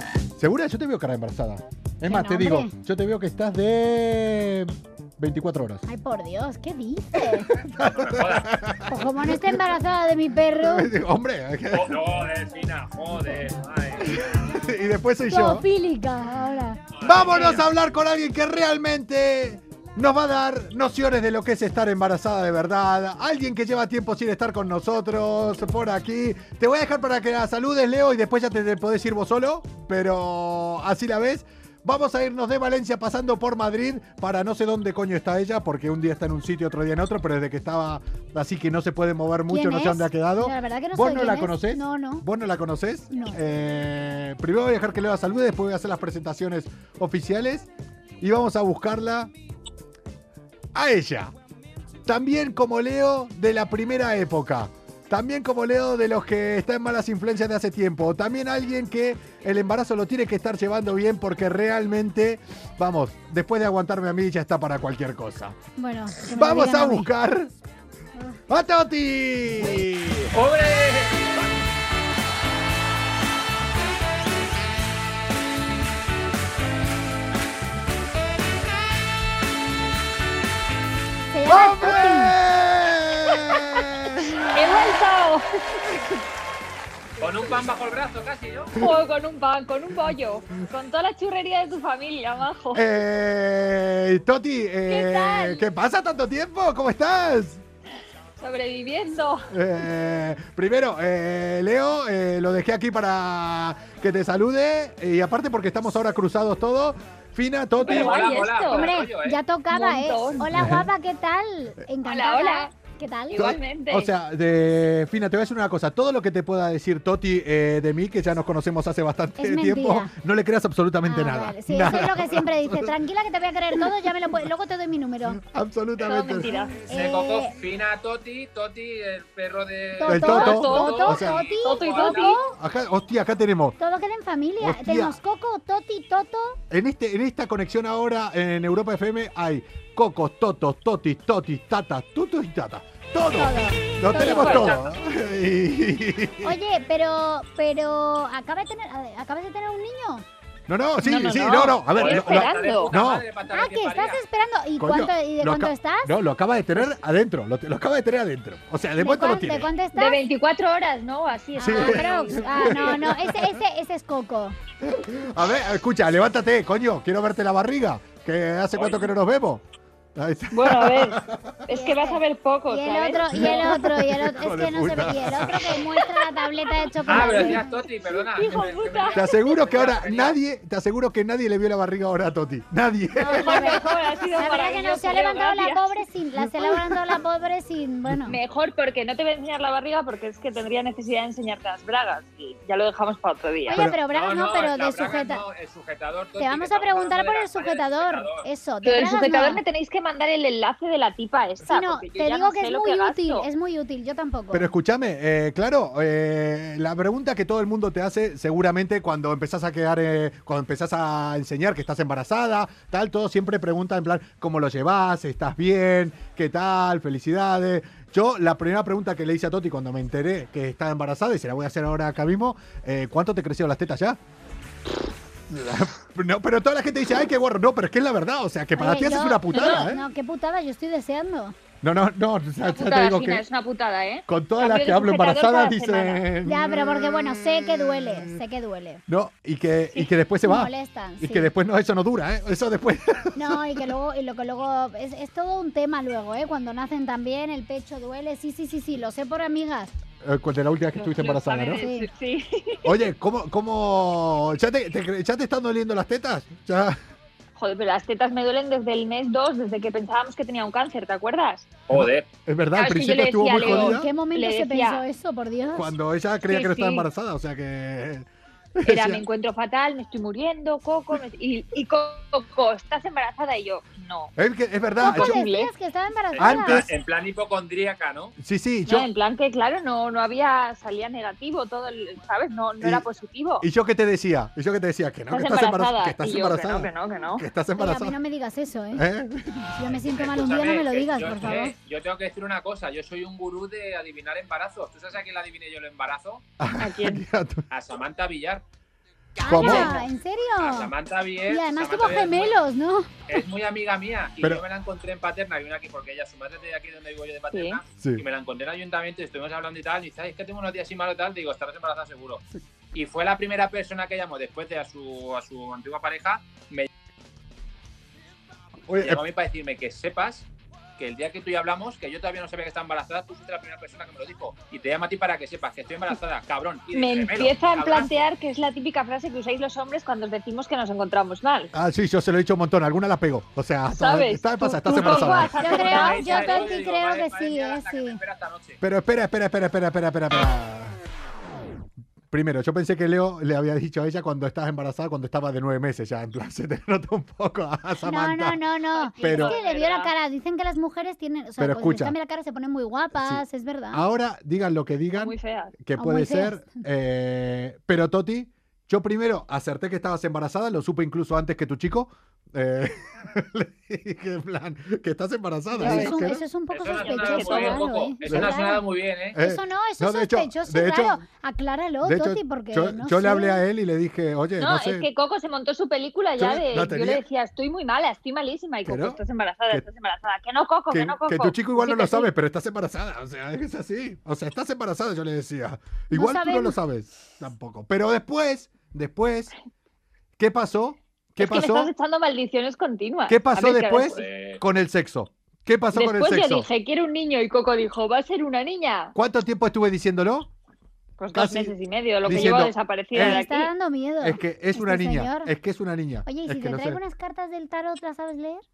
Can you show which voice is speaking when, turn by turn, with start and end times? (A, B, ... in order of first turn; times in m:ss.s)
0:00.4-0:05.8 A
0:02.0-0:02.7 B
0:05.9-0:07.5 B
0:07.2-0:09.7 A
0:07.8-0:08.5 C
0:08.9-0:10.9 B
0:10.5-0:12.0 A
0:11.7-0:14.2 C
0:14.1-0:15.7 A
0:15.3-0:16.8 B
0:16.9-0:17.7 C
0:17.0-0:47.7 A
0:39.5-0:42.2 B
0:43.1-0:43.4 B
0:48.2-0:49.3 A
0:50.7-0:51.3 A
0:52.0-1:05.6 A
1:05.8-1:07.1 B
1:06.3-1:07.5 A
1:08.5-1:10.3 A
1:10.3-1:11.5 C
1:21.3-1:22.4 B
1:21.5-1:24.6 A
1:24.5-1:25.4 D
1:27.2-1:28.8 C
1:28.8-1:32.8 D
1:32.7-1:37.6 A
1:34.9-1:35.6 D
1:38.4-1:39.5 D
1:39.5-1:48.4 A
1:47.8-1:49.0 D
1:47.8-1:49.4 C
1:48.7-1:53.6 B
1:49.7-1:50.5 D
1:50.5-1:50.9 A
1:52.0-1:52.7 D
1:53.3-1:54.1 D
1:53.9-2:02.9 A
1:59.4-2:00.1 B
2:01.0-2:05.4 B
2:03.7-2:04.1 A
2:05.3-2:06.5 A
2:06.0-2:06.8 D
2:06.9-2:07.6 B
2:06.9-2:12.4 C
2:10.0-2:12.6 B
2:10.0-2:11.5 A
2:10.2-2:12.4 D
2:12.6-2:13.8 A
2:13.8-2:16.6 B
2:14.6-2:15.2 A
2:16.7-2:26.6 A
2:23.3-2:24.8 B
2:24.3-2:24.7 D
2:24.6-2:24.9 C
2:26.4-2:30.3 B
2:30.7-2:33.3 A
2:31.0-2:32.9 D
2:31.9-2:34.2 C
2:33.5-2:36.1 B
2:34.8-2:39.7 A
2:39.0-2:40.2 B
2:40.0-2:42.9 D
2:41.6-2:44.6 B
2:41.6-2:43.6 A
2:44.8-2:49.6 A
2:48.7-2:49.1 C
2:50.2-2:51.6 A
2:50.5-2:53.9 D
2:51.7-2:57.7 B
2:53.4-2:56.0 A
2:57.0-3:00.4 C
2:57.2-2:57.5 D
2:58.2-2:59.3 D
2:59.1-3:03.8 A
3:03.2-3:08.4 B
3:03.3-3:06.0 D
3:06.4-3:07.2 A
3:08.1-3:08.3 A
3:08.3-3:13.8 D
3:13.7-3:15.4 B
3:13.7-3:14.0 A
3:14.0-3:18.5 C
3:16.4-3:19.6 B
3:18.8-3:23.5 D
3:21.6-3:24.7 B
3:24.5-3:44.2 A
3:45.5-3:50.0 A
3:48.7-3:51.6 B
3:49.5-3:49.9 D
3:51.8-3:53.4 A
3:52.6-3:56.2 D
3:54.3-3:58.3 A
3:56.4-3:59.0 B
3:59.1-4:03.9 A
4:00.4-4:01.5 B
4:03.4-4:09.9 B
4:10.2-4:11.8 A
4:11.0-4:13.0 D
4:11.8-4:12.1 B
4:12.8-4:17.0 A
4:17.6-4:21.7 D
4:21.9-4:22.3 C
4:21.9-4:24.1 A
4:22.7-4:25.0 D
4:23.6-4:25.9 B
4:25.7-4:29.2 A
4:26.4-4:27.1 D
4:28.8-4:34.3 D
4:34.4-4:35.4 A
4:35.0-4:36.8 B
4:35.1-4:35.7 D
4:36.3-4:38.4 C
4:36.4-4:36.9 A
4:38.4-4:39.1 A
4:38.9-4:43.7 D
4:43.6-4:48.2 A
4:45.3-4:47.4 D
4:47.8-4:49.0 B
4:48.9-4:50.1 A
4:49.7-4:51.8 B
4:50.2-4:56.4 C
4:56.6-4:57.6 A
4:56.8-4:57.2 D
4:57.7-4:58.6 C
4:59.4-5:00.9 B
4:59.4-5:00.0 A
4:59.6-4:59.9 D
5:00.6-5:02.6 C
5:01.5-5:03.4 B
5:03.3-5:16.9 C
5:07.5-5:07.8 D
5:08.0-5:08.2 A
5:18.9-5:19.2 A
5:19.0-5:28.2 C
5:26.9-5:31.7 D
5:31.7-5:35.6 A
5:33.9-5:36.6 D
5:35.1-5:38.8 C
5:35.5-5:38.2 B
5:38.8-5:41.0 A
5:42.3-5:48.6 A
5:48.0-5:54.0 B
5:49.0-5:49.6 D
5:49.2-5:49.6 A
5:49.3-5:50.1 C
5:51.6-5:52.2 A
5:53.1-6:06.4 A
5:55.1-5:55.8 D
5:56.0-5:56.8 B
6:05.8-6:08.8 B
6:05.8-6:06.2 D
6:06.7-6:09.4 C
6:07.0-6:07.9 D
6:08.2-6:08.5 A
6:09.4-6:11.2 A
6:09.4-6:13.6 B
6:12.0-6:15.0 A
6:14.6-6:22.3 D
6:16.4-6:17.2 A
6:18.9-6:19.2 A
6:20.9-6:29.5 A
6:26.1-6:26.8 B
6:30.4-6:31.9 A
6:31.4-6:34.2 D
6:33.3-6:36.7 A
6:34.1-6:34.6 C
6:35.9-6:39.1 D
6:39.1-6:40.5 A
6:41.2-6:43.7 D
6:41.3-6:43.4 A
6:43.1-6:45.5 B
6:44.2-6:47.0 A
6:46.3-6:48.6 B